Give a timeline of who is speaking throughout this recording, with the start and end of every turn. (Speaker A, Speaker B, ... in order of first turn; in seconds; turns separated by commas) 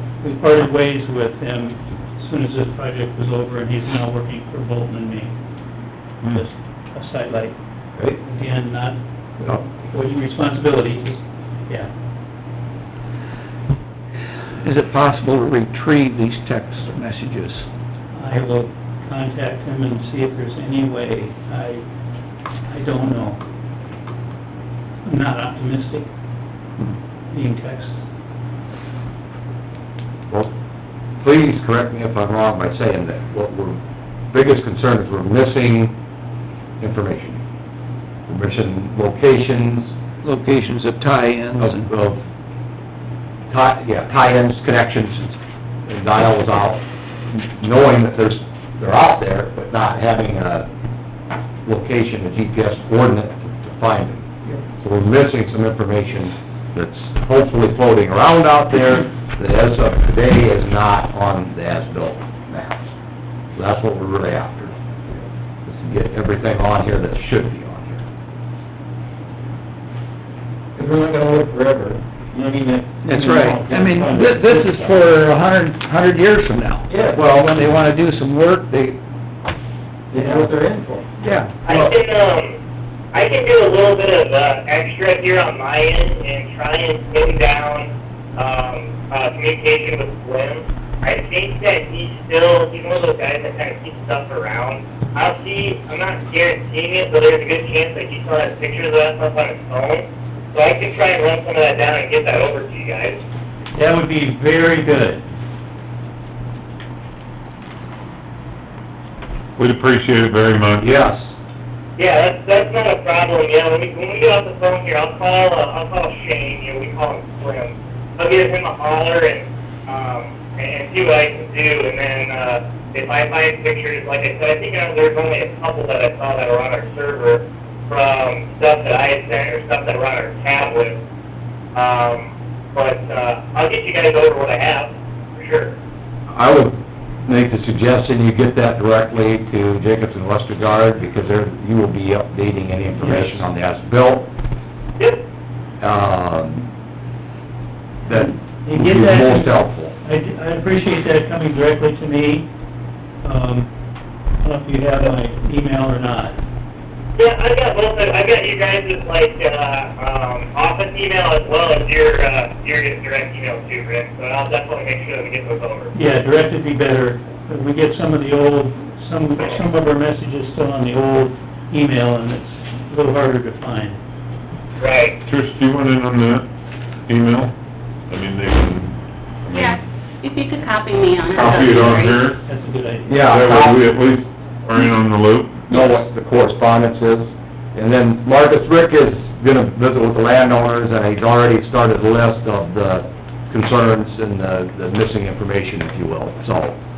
Speaker A: 0.2-5.3, Speaker A: 6.2-11.9, Speaker B: 14.6-17.7, Speaker A: 18.1-21.8, Speaker A: 22.7-23.4, Speaker A: 25.1-26.1, Speaker A: 27.3-27.9, Speaker C: 31.2-33.8, Speaker C: 34.3-36.0, Speaker C: 36.8-37.4, Speaker C: 38.3-39.9, Speaker B: 40.2-41.9, Speaker C: 41.6-42.2, Speaker C: 43.5-50.7, Speaker C: 51.6-62.8, Speaker C: 63.5-64.7, Speaker C: 65.6-68.0, Speaker D: 70.8-75.0, Speaker B: 73.0-79.0, Speaker D: 76.9-77.2, Speaker D: 80.1-81.0, Speaker B: 81.2-81.7, Speaker E: 81.6-82.6, Speaker E: 83.1-103.2, Speaker A: 103.7-105.2, Speaker F: 109.6-111.1, Speaker C: 110.8-111.3, Speaker E: 112.0-131.0, Speaker E: 131.7-135.7, Speaker C: 136.3-144.3, Speaker A: 143.0-143.4, Speaker C: 145.8-146.7, Speaker C: 148.0-149.9, Speaker A: 148.1-152.5, Speaker A: 153.2-153.7, Speaker A: 154.4-156.4, Speaker E: 157.2-165.9, Speaker A: 165.9-174.0, Speaker E: 174.8-175.2, Speaker F: 175.2-176.5, Speaker F: 177.1-177.5, Speaker F: 178.1-179.8, Speaker G: 179.5-182.3, Speaker F: 181.3-182.4, Speaker A: 182.4-183.3, Speaker C: 183.1-183.8, Speaker F: 183.2-185.7, Speaker C: 185.7-196.8